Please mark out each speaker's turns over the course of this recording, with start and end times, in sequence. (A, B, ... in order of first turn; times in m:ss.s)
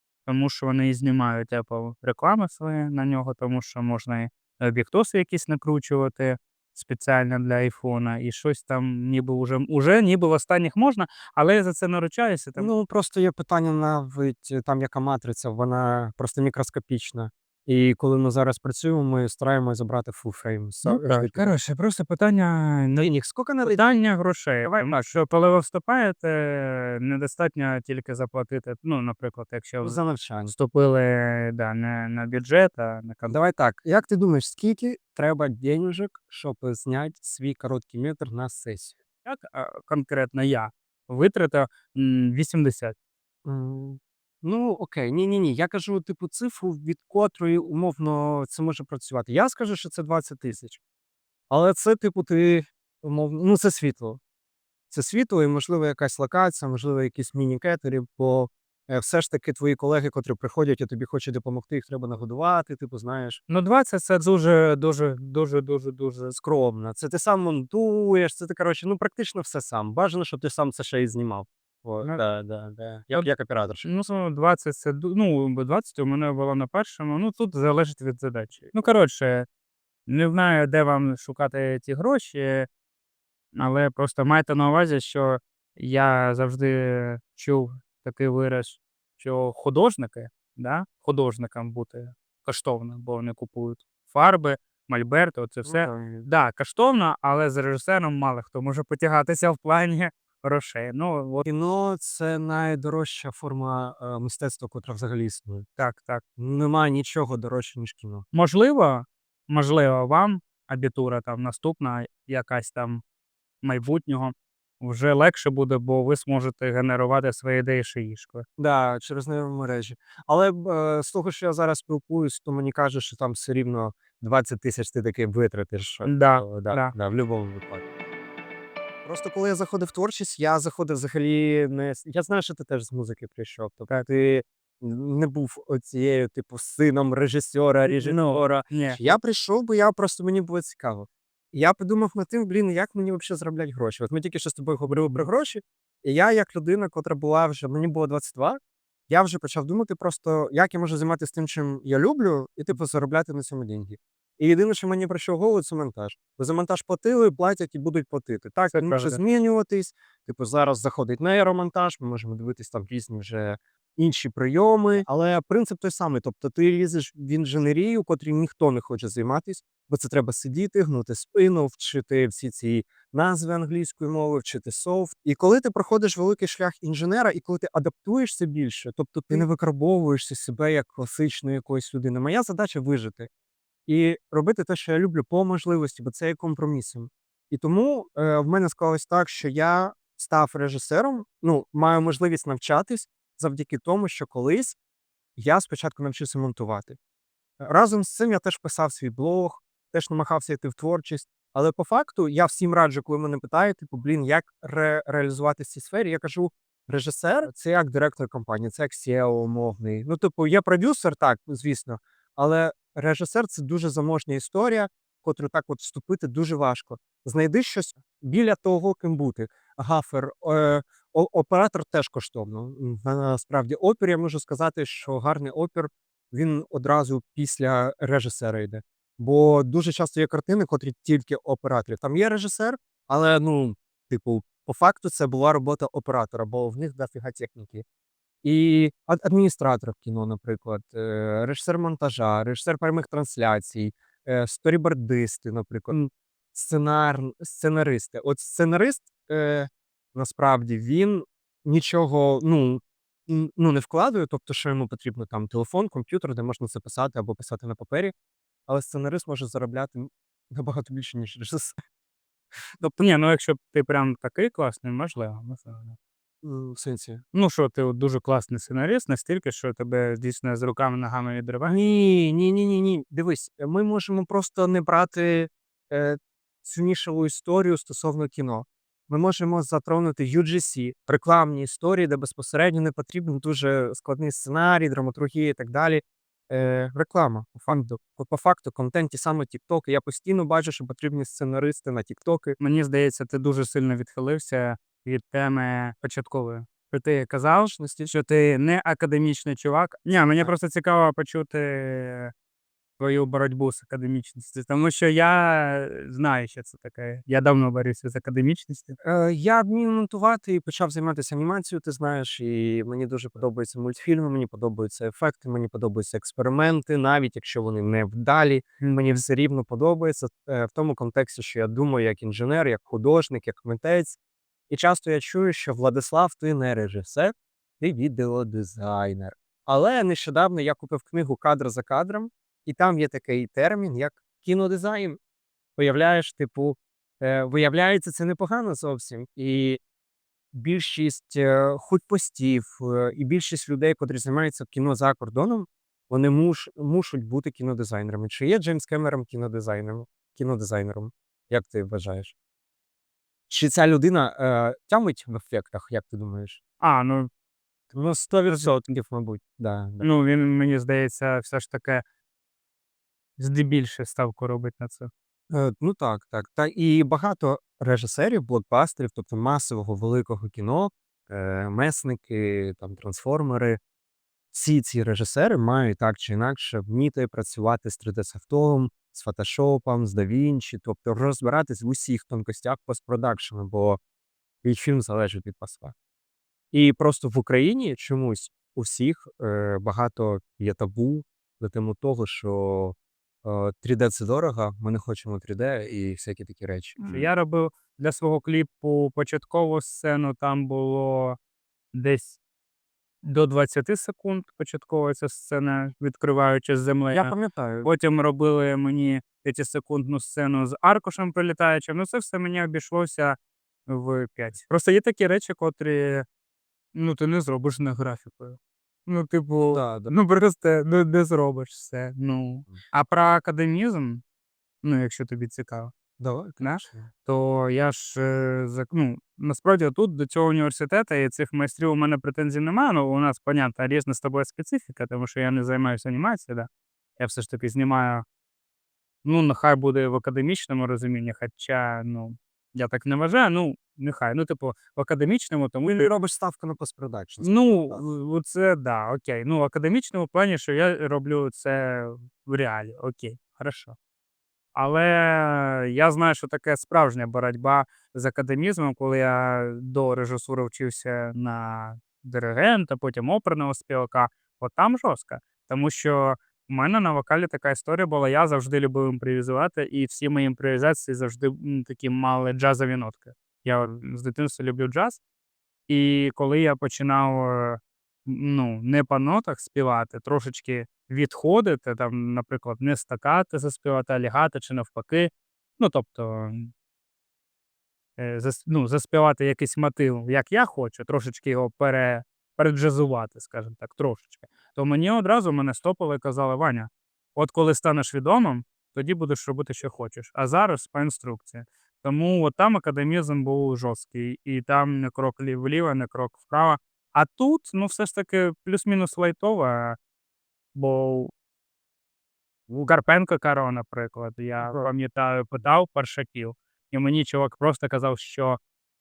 0:00.2-0:12.7 A
0:12.6-0:21.5 B
0:20.8-0:23.0 A
0:23.0-0:23.8 B
0:23.6-0:33.4 A
0:24.6-0:25.1 B
0:29.8-0:30.5 B
0:33.3-0:39.0 B
0:39.2-0:42.9 A
0:43.4-0:50.8 B
0:51.5-0:54.2 B
0:54.9-1:03.4 B
1:03.5-1:06.3 A
1:06.3-1:13.8 B
1:13.8-1:19.4 A
1:20.1-1:22.7 A
1:23.5-1:41.4 A
1:35.6-1:36.3 B
1:41.4-1:45.7 B
1:45.8-1:46.2 A
1:46.4-1:48.2 B
1:48.3-1:53.0 A
1:53.6-1:58.4 A
1:58.6-2:07.8 B
2:06.0-2:06.9 A
2:09.0-3:03.3 B
2:17.9-2:19.1 A
2:24.9-2:25.3 A
2:38.7-2:39.2 A
3:03.9-3:14.8 B
3:15.4-3:17.0 B
3:17.6-3:57.8 B
3:58.4-4:18.1 B
4:18.7-4:21.8 B
4:22.8-4:26.0 A
4:26.4-4:27.2 B
4:27.3-4:31.7 A
4:31.6-4:52.6 B
4:52.6-5:02.3 A
4:57.7-4:58.1 B
5:03.0-5:09.0 A
5:09.0-5:24.2 B
5:24.7-5:35.2 B
5:35.8-5:39.8 B
5:40.5-5:52.3 B
5:53.5-5:56.6 B
5:56.8-5:57.3 A
5:57.9-6:00.0 B
6:00.0-6:02.0 A
6:03.4-6:05.1 A
6:05.5-6:13.8 B
6:14.5-6:24.0 B
6:24.6-6:25.9 B
6:26.7-6:37.3 B
6:37.0-6:41.4 A
6:41.9-6:42.4 A
6:43.2-6:53.4 A
6:47.1-6:47.9 B
6:53.9-6:56.2 A
6:56.9-7:04.2 A
6:59.7-7:00.1 B
7:04.8-7:05.9 A
7:06.2-7:07.1 B
7:06.6-7:16.7 A
7:17.2-7:18.2 A
7:19.2-7:26.1 A
7:26.0-7:28.0 B
7:27.4-7:33.9 A
7:34.7-7:55.2 A
7:55.9-8:06.7 A
8:08.2-8:30.0 A
8:30.7-8:31.3 A
8:32.7-8:38.6 A